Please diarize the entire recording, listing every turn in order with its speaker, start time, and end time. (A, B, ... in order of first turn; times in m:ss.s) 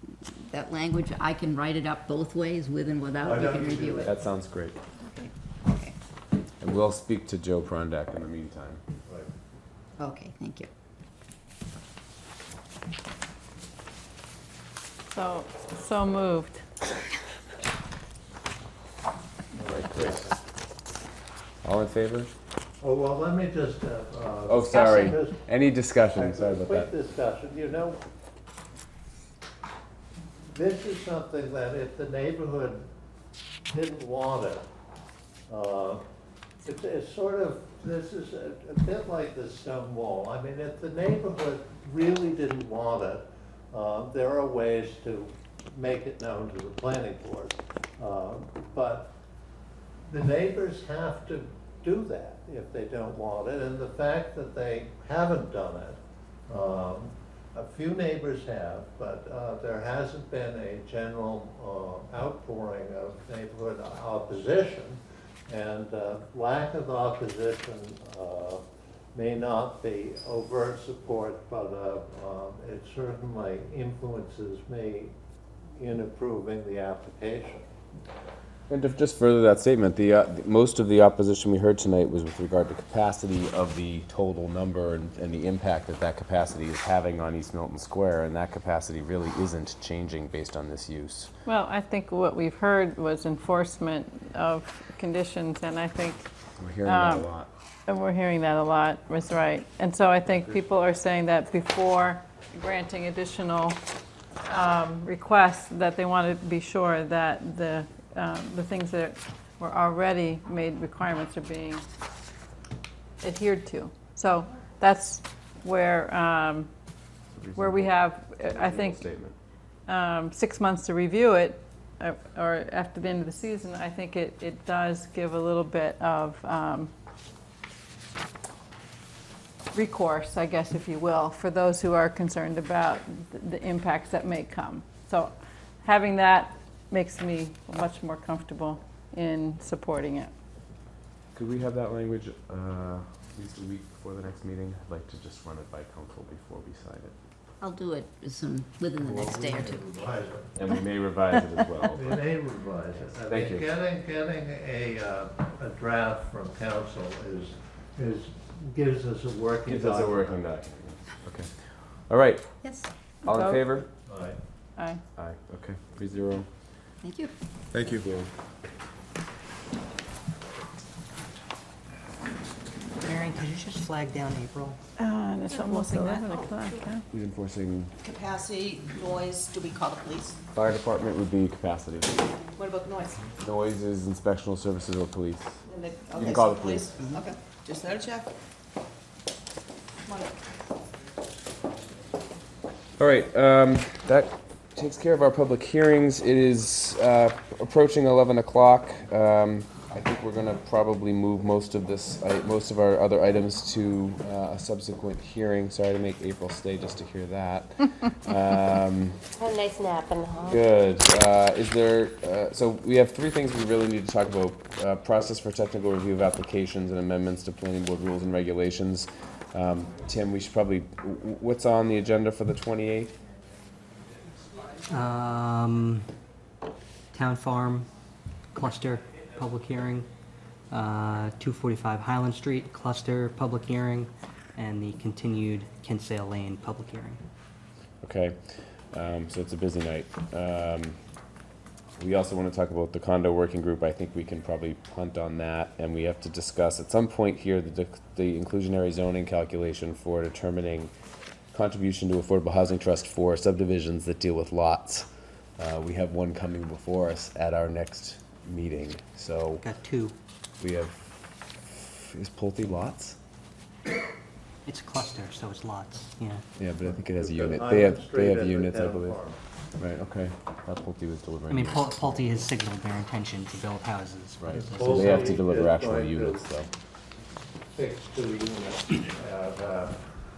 0:00.2-0:04.2 A
0:03.2-0:04.2 B
0:04.0-0:04.8 C
0:05.1-0:06.0 A
0:06.6-0:08.8 C
0:10.0-0:10.7 A
0:15.1-0:16.6 D
0:19.6-0:20.3 B
0:19.6-0:20.4 C
0:21.6-0:22.3 C
0:22.8-0:25.4 B
0:24.5-0:26.9 C
0:26.1-0:28.0 B
0:30.5-0:32.8 B
0:33.7-0:34.6 B
0:35.5-0:36.0 B
0:36.6-0:49.1 B
0:50.1-1:15.1 B
1:15.8-1:17.7 B
1:18.7-1:31.3 C
1:31.4-1:36.3 D
1:36.6-1:37.5 C
1:36.8-1:37.3 D
1:37.9-1:43.8 D
1:44.5-1:51.8 D
1:53.2-1:56.7 D
1:57.3-1:59.4 C
1:57.5-1:59.0 D
1:59.9-2:06.9 D
2:09.7-2:20.3 D
2:21.3-2:27.1 C
2:27.6-2:30.1 A
2:29.0-2:30.5 B
2:30.5-2:32.2 C
2:31.9-2:40.2 B
2:33.2-2:33.6 C
2:39.6-2:41.5 C
2:42.1-2:42.6 C
2:42.6-2:42.9 A
2:43.2-2:43.9 C
2:43.2-2:43.6 D
2:44.0-2:44.4 B
2:44.8-2:45.0 D
2:45.2-2:46.5 C
2:47.0-2:47.3 A
2:47.7-2:48.3 C
2:53.1-2:54.8 E
2:55.0-2:57.0 D
2:55.5-2:56.8 F
2:57.1-2:57.9 C
2:58.0-3:00.4 G
3:00.5-3:02.2 C
3:02.5-3:03.3 G
3:03.4-3:05.6 C
3:05.7-3:08.3 G
3:06.1-3:07.2 C
3:10.0-3:10.3 G
3:13.0-3:29.2 C
3:29.4-3:30.6 F
3:30.5-3:43.1 C
3:44.9-3:45.5 E
3:47.3-3:47.8 E
3:48.7-3:50.0 E
3:50.7-3:57.2 E
3:58.0-3:58.4 C
3:58.9-4:01.0 C
4:02.0-4:10.9 C
4:11.5-4:19.6 C
4:19.7-4:20.1 E
4:20.6-4:23.2 C
4:24.8-4:26.3 E
4:26.6-4:29.2 C
4:26.8-4:29.4 B
4:29.8-4:32.4 C
4:33.1-4:34.2 E
4:34.4-4:36.7 C
4:34.5-4:36.5 B
4:37.7-4:40.0 B